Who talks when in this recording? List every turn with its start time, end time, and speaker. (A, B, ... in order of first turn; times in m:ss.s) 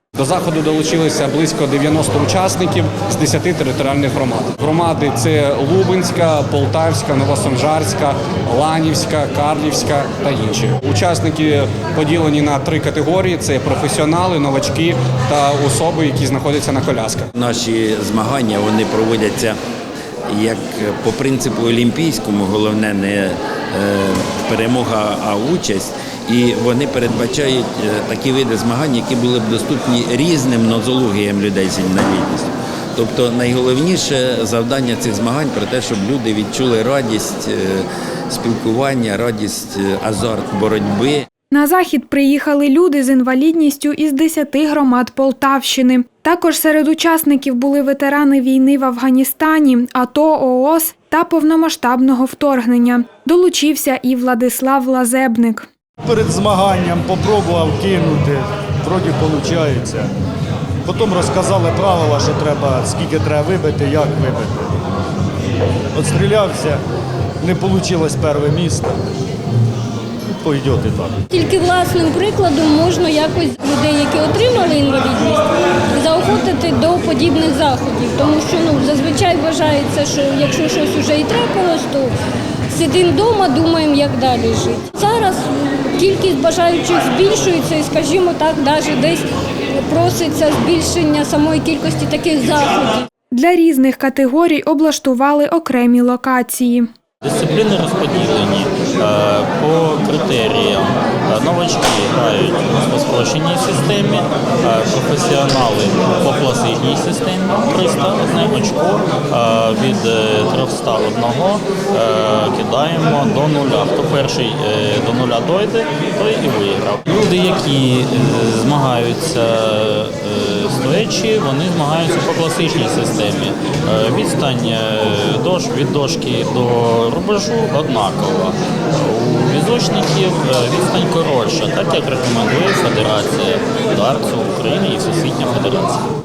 0:00.2-0:17.3 A
0:17.4-0:19.6 B
0:20.3-0:41.1 B
0:41.5-0:55.7 C
0:56.0-1:00.1 D
1:00.8-1:04.7 D
1:05.9-1:06.8 D
1:07.4-1:09.0 D
1:10.3-1:11.2 D
1:11.3-1:22.1 E
1:22.7-1:33.1 E
1:33.3-1:36.9 C
1:37.2-2:16.0 F